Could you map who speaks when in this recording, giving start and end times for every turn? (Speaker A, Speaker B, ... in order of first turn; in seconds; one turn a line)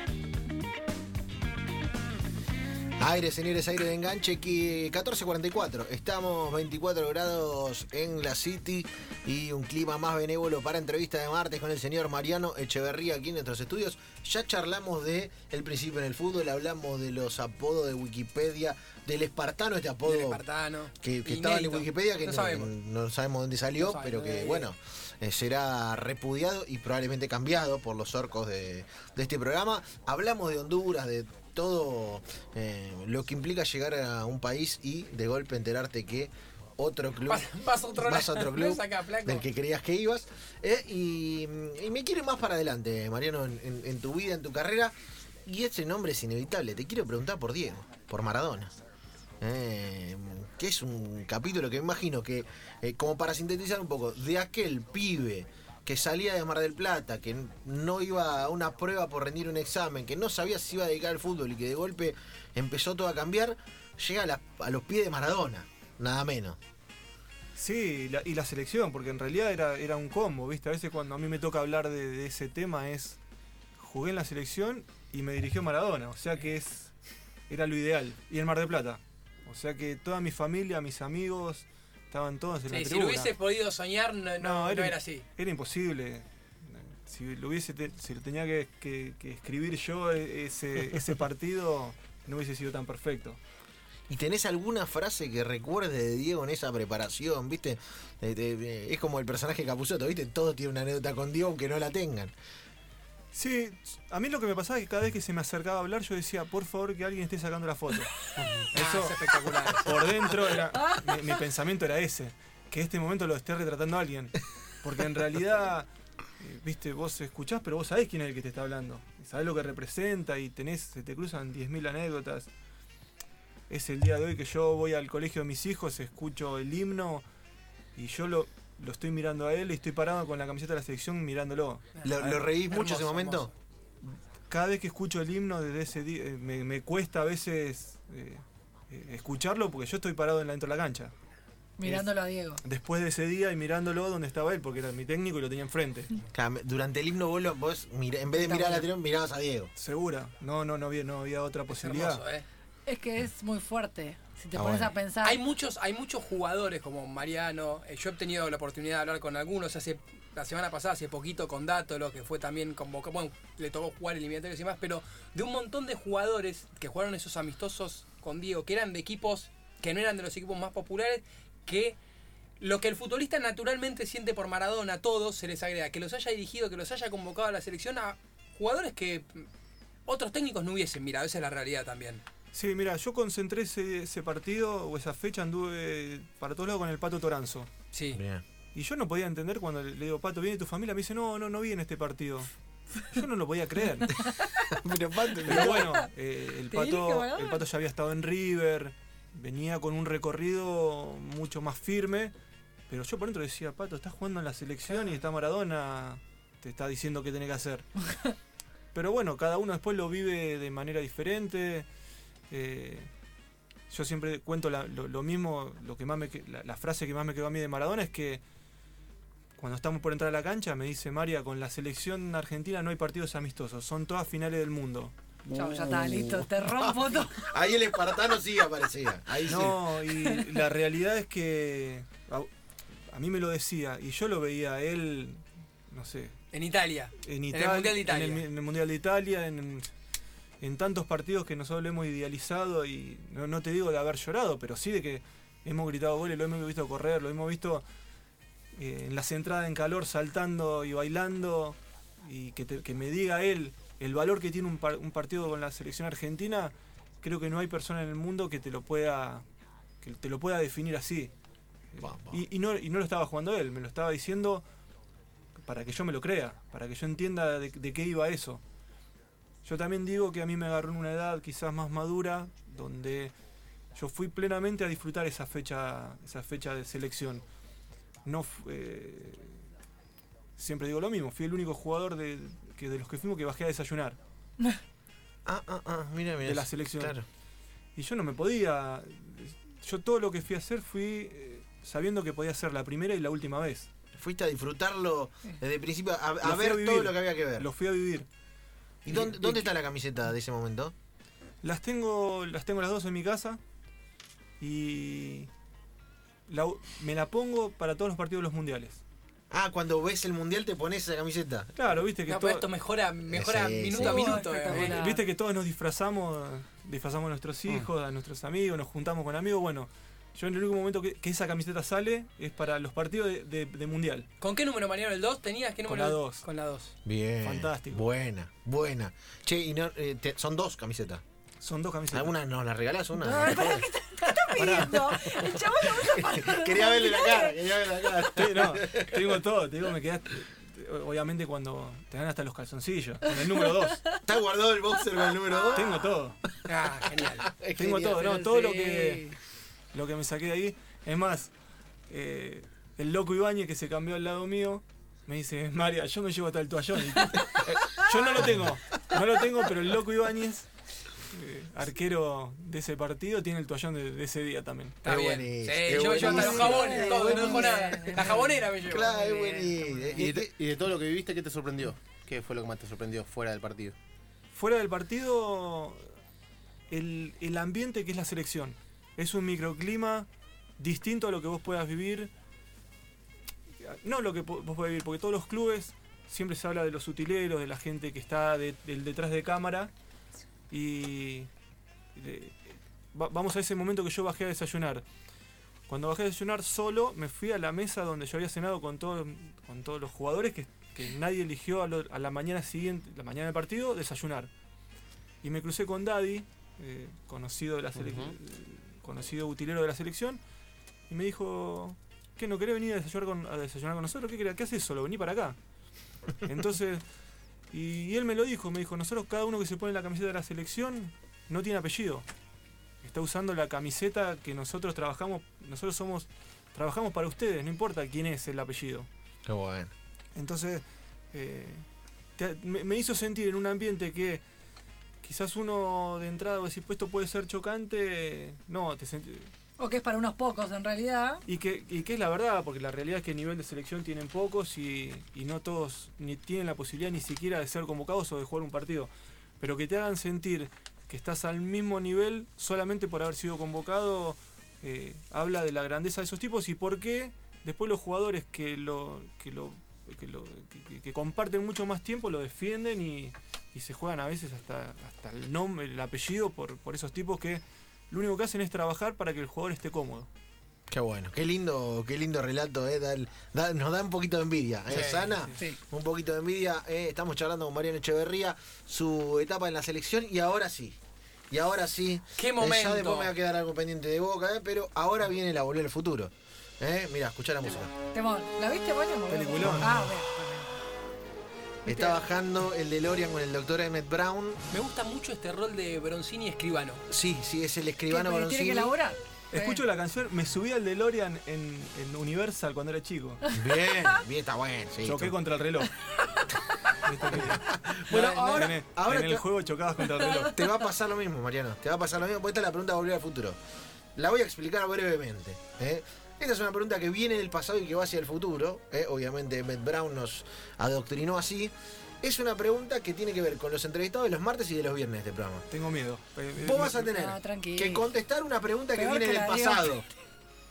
Speaker A: 3.0-20.4
Speaker B: 20.1-22.7
Speaker A: 21.0-44.9
Speaker B: 23.8-24.7
Speaker B: 37.3-39.5
Speaker A: 45.5-48.8
Speaker A: 49.4-66.6
Speaker C: 67.6-73.2
Speaker C: 73.8-76.9
Speaker C: 77.5-83.3
Speaker B: 82.7-85.2
Speaker C: 84.4-93.4
Speaker A: 94.1-102.3
Speaker C: 103.3-108.1
Speaker B: 108.7-110.1
Speaker C: 108.7-115.9
Speaker D: 110.8-111.2
Speaker C: 116.4-122.5
Speaker C: 123.7-127.2
Speaker C: 128.0-131.9
Speaker B: 132.0-133.5
Speaker A: 132.0-133.5
Speaker C: 134.0-141.1
Speaker D: 141.8-142.6
Speaker C: 141.8-142.1
Speaker C: 142.6-146.1
Speaker A: 146.3-149.7
Speaker D: 148.3-148.9
Speaker C: 149.8-152.2
Speaker B: 151.7-152.4
Speaker D: 152.9-155.4
Speaker A: 154.5-154.9
Speaker B: 155.2-172.0
Speaker B: 172.6-179.5
Speaker B: 180.1-182.2
Speaker C: 182.5-187.7
Speaker B: 187.9-188.2
Speaker A: 188.2-188.4
Speaker C: 188.7-192.5
Speaker C: 193.0-194.3
Speaker D: 194.2-194.7
Speaker A: 194.7-195.9
Speaker D: 195.4-196.1
Speaker C: 195.5-202.3
Speaker D: 196.7-197.7
Speaker C: 202.9-207.9
Speaker C: 208.9-211.9
Speaker C: 212.5-213.1
Speaker C: 213.9-218.4
Speaker C: 219.6-225.1
Speaker D: 225.5-227.5
Speaker A: 225.6-229.8
Speaker C: 229.5-232.5
Speaker D: 230.2-230.6
Speaker C: 233.1-236.4
Speaker B: 236.5-238.4
Speaker C: 237.2-239.9
Speaker C: 240.6-247.8
Speaker C: 248.8-259.4
Speaker C: 260.0-261.3
Speaker C: 261.9-264.6
Speaker A: 262.0-262.4
Speaker C: 265.6-268.6
Speaker C: 269.6-273.3
Speaker C: 273.9-277.4
Speaker C: 278.2-279.6
Speaker C: 280.6-284.2
Speaker A: 285.5-287.2
Speaker C: 286.4-287.2
Speaker C: 288.0-293.9
Speaker A: 294.1-297.7
Speaker C: 296.4-298.3
Speaker C: 299.1-299.7
Speaker A: 299.1-300.9
Speaker C: 301.6-303.6
Speaker C: 304.6-305.5
Speaker C: 306.5-309.0
Speaker A: 309.5-311.7
Speaker C: 311.8-312.7
Speaker B: 312.3-315.1
Speaker A: 313.3-314.4
Speaker D: 313.9-315.2
Speaker C: 314.7-324.3
Speaker B: 324.4-326.9
Speaker C: 325.9-326.4
Speaker A: 327.1-331.2
Speaker C: 327.4-328.1
Speaker C: 331.6-332.3
Speaker A: 332.1-333.9
Speaker D: 333.1-338.2
Speaker A: 334.4-334.9
Speaker C: 334.5-335.3
Speaker A: 335.8-339.1
Speaker C: 338.4-344.1
Speaker D: 343.4-344.2
Speaker A: 344.2-346.1
Speaker D: 345.1-346.0
Speaker C: 345.7-346.4
Speaker B: 346.7-347.5
Speaker A: 347.2-348.5
Speaker C: 347.8-349.3
Speaker D: 348.2-349.4
Speaker C: 349.9-351.5
Speaker C: 352.1-360.7
Speaker A: 358.4-358.7
Speaker C: 361.3-365.0
Speaker B: 365.0-369.6
Speaker A: 365.1-370.5
Speaker D: 366.1-368.5
Speaker D: 369.2-370.2
Speaker E: 370.1-373.9
Speaker C: 374.5-376.1
Speaker C: 376.9-380.3
Speaker C: 380.8-382.3
Speaker C: 383.8-389.9
Speaker C: 390.7-391.5
Speaker C: 392.1-395.0
Speaker C: 395.9-404.5
Speaker C: 405.4-410.4
Speaker E: 407.9-408.3
Speaker C: 411.1-415.6
Speaker C: 416.4-417.0
Speaker C: 417.7-422.2
Speaker C: 423.0-429.1
Speaker A: 429.5-429.9
Speaker C: 430.4-431.9
Speaker C: 432.4-434.4
Speaker C: 435.2-439.5
Speaker D: 439.8-441.4
Speaker C: 441.5-470.3
Speaker A: 470.9-481.0
Speaker C: 474.9-475.6
Speaker A: 481.5-487.9
Speaker B: 482.4-483.3
Speaker D: 488.0-490.8
Speaker C: 489.3-490.1
Speaker A: 491.9-494.6
Speaker D: 491.9-492.2
Speaker B: 494.7-497.0
Speaker A: 497.1-498.9
Speaker D: 498.1-499.9
Speaker C: 499.5-503.4
Speaker A: 503.5-505.4
Speaker C: 505.0-505.9
Speaker D: 506.1-506.6
Speaker C: 507.0-510.6
Speaker A: 507.3-509.5
Speaker D: 508.1-508.7
Speaker D: 510.1-510.6
Speaker A: 510.5-513.6
Speaker A: 514.1-525.7
Speaker C: 525.7-527.1
Speaker A: 526.6-530.1
Speaker D: 527.0-528.1
Speaker D: 529.0-530.0